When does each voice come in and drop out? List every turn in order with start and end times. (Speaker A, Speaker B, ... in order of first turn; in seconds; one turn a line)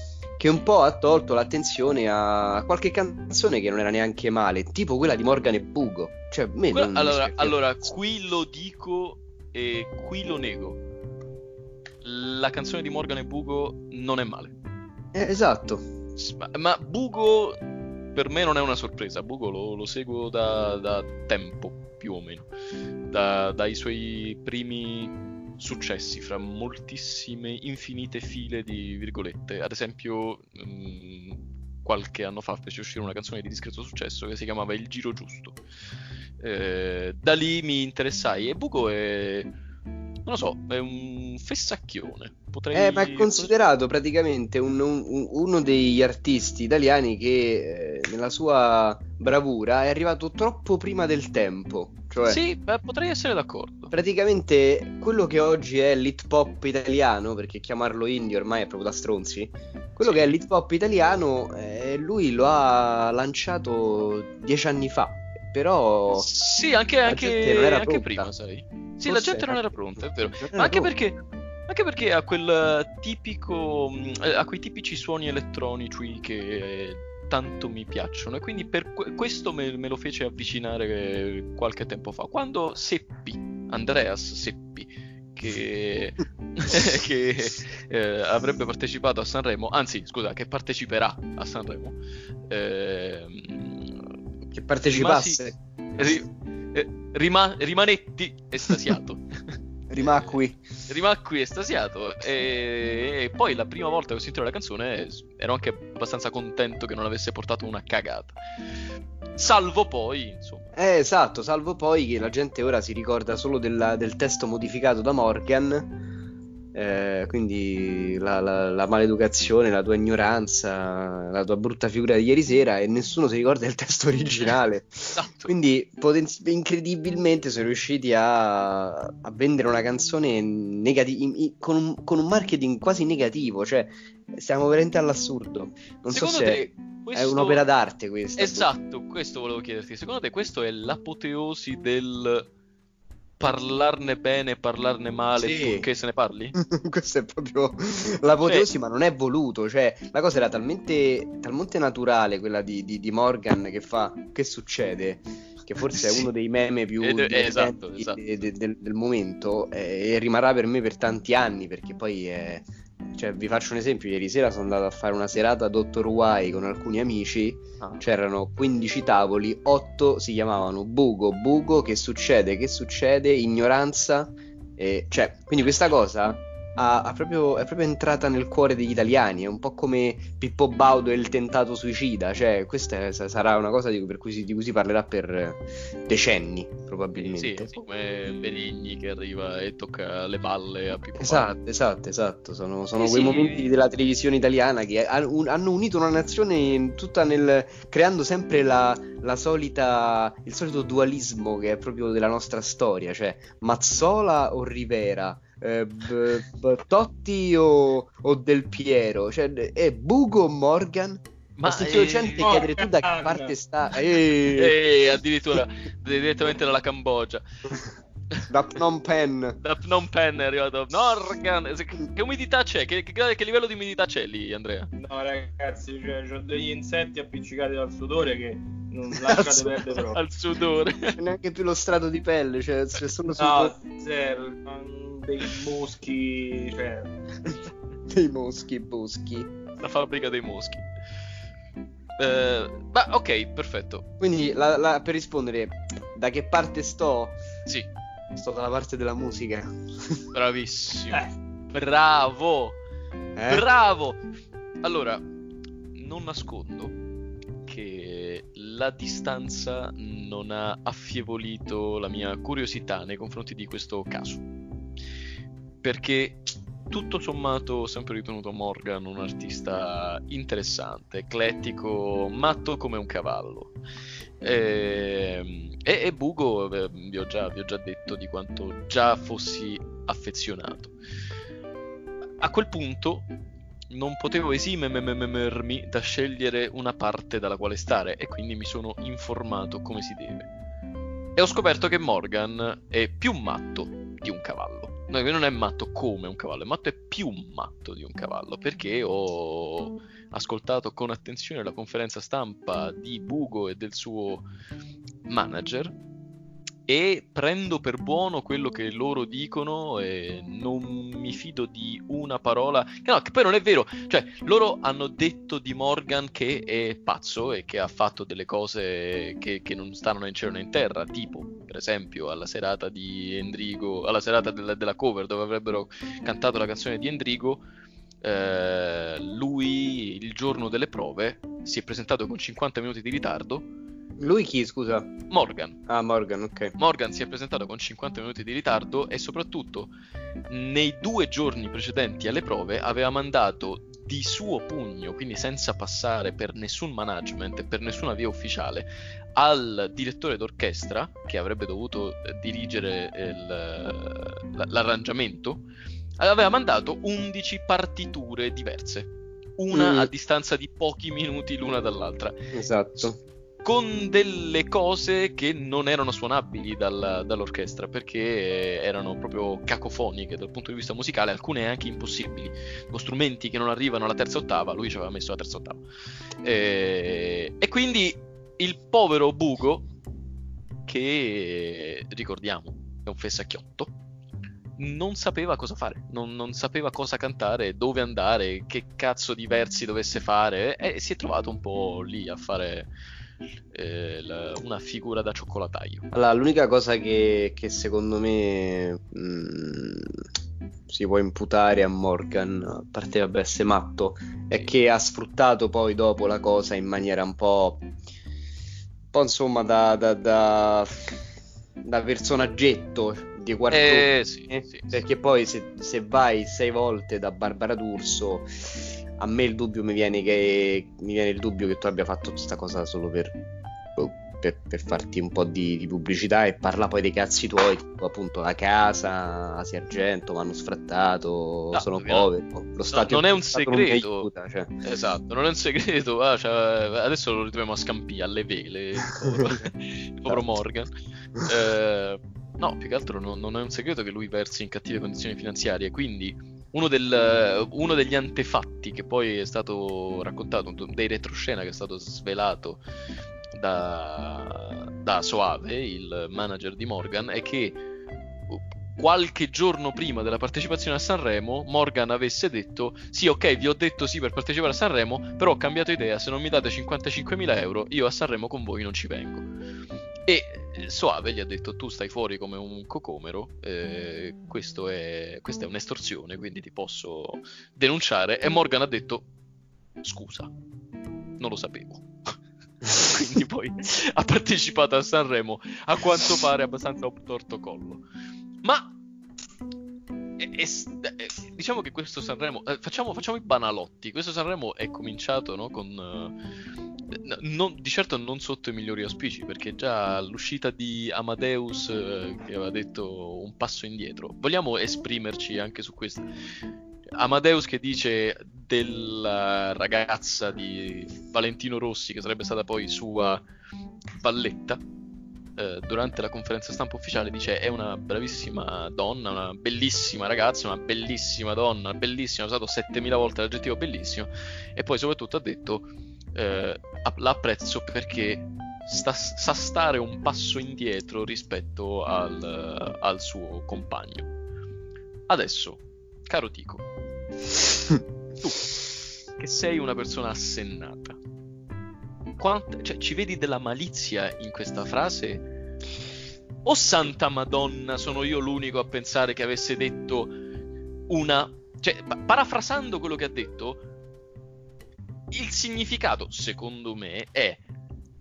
Speaker A: 0.4-7.6
Speaker B: 6.7-10.8
Speaker B: 12.0-14.6
Speaker A: 15.1-15.8
Speaker B: 16.2-17.6
Speaker B: 18.1-22.5
Speaker B: 23.1-35.6
Speaker B: 36.4-39.5
Speaker B: 40.3-43.5
Speaker A: 42.7-52.4
Speaker B: 52.2-53.9
Speaker A: 53.9-66.3
Speaker B: 60.0-60.3
Speaker B: 66.2-92.0
Speaker A: 67.1-68.3
Speaker A: 69.0-69.6
Speaker A: 70.4-70.9
Speaker B: 92.5-94.0
Speaker A: 94.5-96.2
Speaker B: 94.8-95.4
Speaker B: 96.0-99.2
Speaker A: 99.9-100.6
Speaker B: 100.0-108.4
Speaker B: 109.4-110.7
Speaker A: 110.7-115.9
Speaker A: 116.7-138.7
Speaker B: 125.1-125.5
Speaker B: 136.1-137.6
Speaker B: 138.4-142.5
Speaker B: 143.4-146.6
Speaker A: 145.4-145.9
Speaker A: 146.6-187.7
Speaker B: 155.9-156.3
Speaker B: 157.0-158.3
Speaker B: 187.2-191.5
Speaker A: 191.2-214.8
Speaker B: 193.0-193.7
Speaker B: 211.6-212.6
Speaker C: 212.4-213.6
Speaker B: 214.5-217.4
Speaker A: 218.5-219.6
Speaker B: 219.6-224.9
Speaker C: 225.0-230.2
Speaker A: 229.2-229.8
Speaker B: 230.1-231.2
Speaker A: 231.2-233.8
Speaker C: 233.3-237.1
Speaker A: 238.1-239.5
Speaker B: 239.8-240.8
Speaker B: 242.2-244.1
Speaker A: 244.2-247.4
Speaker A: 248.3-250.2
Speaker B: 250.3-252.8
Speaker A: 253.4-253.7
Speaker B: 253.5-254.2
Speaker B: 254.8-255.2
Speaker B: 255.9-256.9
Speaker B: 257.6-264.4
Speaker B: 265.8-273.8
Speaker B: 274.4-280.9
Speaker B: 282.4-283.3
Speaker B: 283.9-290.5
Speaker B: 291.4-304.5
Speaker B: 305.3-306.0
Speaker B: 306.9-327.6
Speaker B: 328.2-333.7
Speaker A: 334.2-335.1
Speaker B: 335.3-335.8
Speaker A: 335.9-336.8
Speaker B: 336.8-339.9
Speaker B: 340.5-355.6
Speaker B: 356.2-362.5
Speaker A: 359.7-360.1
Speaker A: 362.5-363.2
Speaker B: 363.6-375.8
Speaker B: 376.4-379.9
Speaker B: 380.9-383.9
Speaker B: 384.8-392.9
Speaker B: 393.7-396.1
Speaker A: 396.1-400.2
Speaker A: 400.9-407.9
Speaker A: 409.1-411.2
Speaker A: 411.8-423.4
Speaker B: 413.7-415.0
Speaker A: 424.0-434.7
Speaker B: 431.7-432.3
Speaker B: 432.9-434.3
Speaker B: 434.8-452.8
Speaker B: 453.5-457.8
Speaker B: 458.5-469.5
Speaker B: 470.3-479.3
Speaker B: 480.0-480.5
Speaker B: 481.4-482.3
Speaker B: 482.8-488.0
Speaker B: 488.6-488.9
Speaker B: 490.4-496.4
Speaker B: 497.1-506.3
Speaker B: 507.2-513.4
Speaker B: 514.2-514.8
Speaker B: 515.6-534.3
Speaker B: 535.3-536.9
Speaker B: 538.4-538.8
Speaker B: 539.4-541.2
Speaker B: 542.4-545.5
Speaker B: 546.6-550.4
Speaker B: 551.1-553.8
Speaker B: 555.3-557.6